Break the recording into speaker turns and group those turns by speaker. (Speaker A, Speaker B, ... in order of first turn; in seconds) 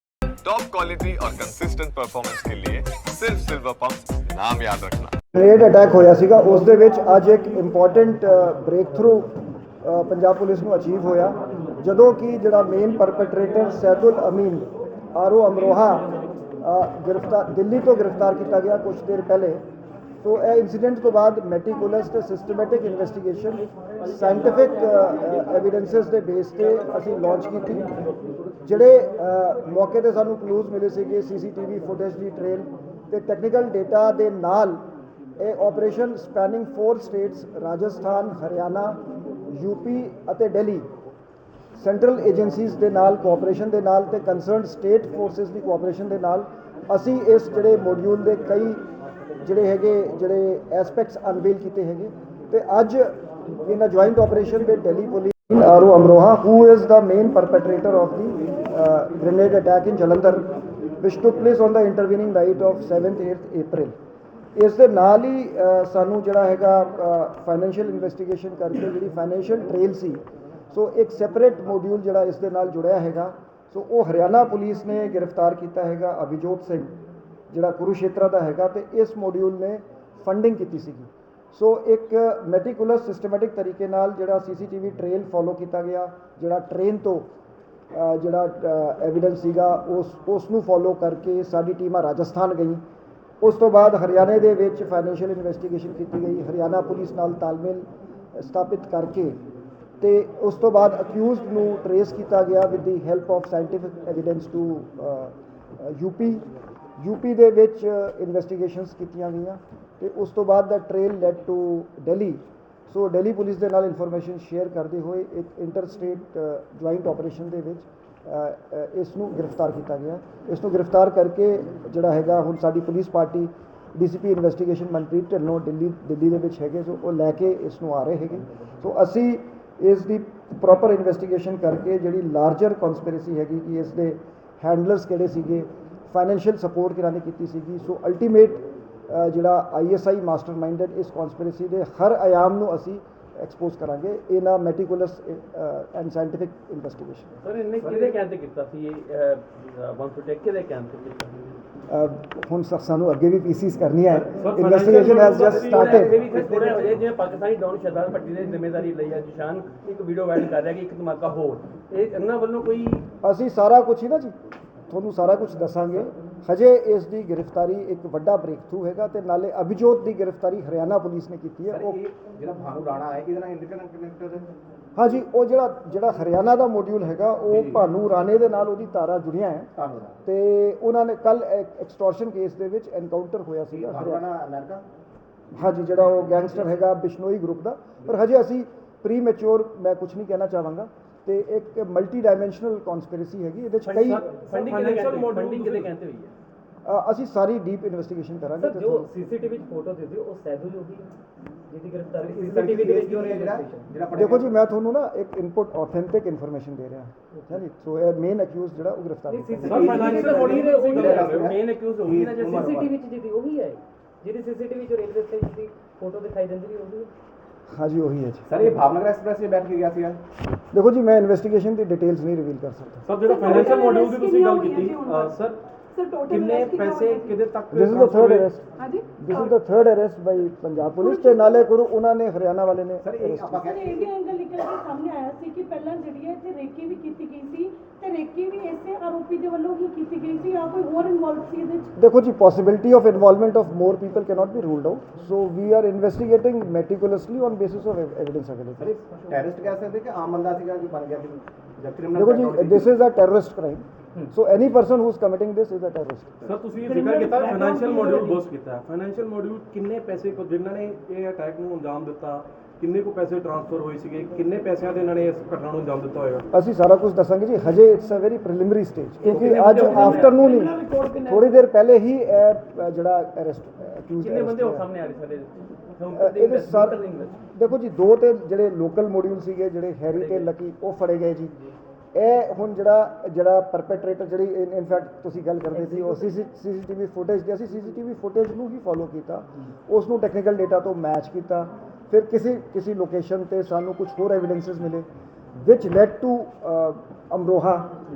Speaker A: 0.4-5.2
Speaker B: 5.3-16.1, 16.6-19.6, 20.2-27.9, 28.6-34.8, 35.4-40.9, 41.8-48.9, 49.4-60.5, 61.0-64.0, 64.5-77.0, 77.5-87.3, 87.9-92.8, 93.4-99.4, 100.0-106.5, 107.0-147.3, 151.9-156.2, 163.2-164.3, 164.9-172.0, 175.0-179.7, 180.2-184.3, 185.5-194.3, 196.8-199.1, 204.1-210.2, 217.7-218.6, 220.7-223.1, 227.7-228.6, 229.2-233.6, 242.0-248.9, 252.1-256.4, 266.5-274.9, 276.1-277.0, 277.5-281.5, 282.1-297.9
Speaker C: 147.4-151.4, 155.5-163.1, 193.8-196.3, 210.8-212.7, 269.3-271.6, 274.2-277.4, 280.1-280.5
Speaker D: 147.8-148.2, 156.2-157.0, 171.7-174.5, 177.5-177.8, 179.8-180.2, 183.7-184.8, 202.2-204.5, 209.7-211.6, 218.5-220.2, 233.0-234.2, 248.8-252.9
Speaker E: 154.4-156.1, 194.1-195.9, 209.7-212.9, 223.1-225.6, 226.3-228.5, 256.4-266.4, 269.3-270.4
Speaker F: 198.6-201.1, 201.7-203.9, 209.3-211.3, 212.4-217.1
Speaker G: 223.2-225.4, 225.9-227.4, 228.8-229.5, 231.0-231.7, 233.6-241.9, 256.8-258.4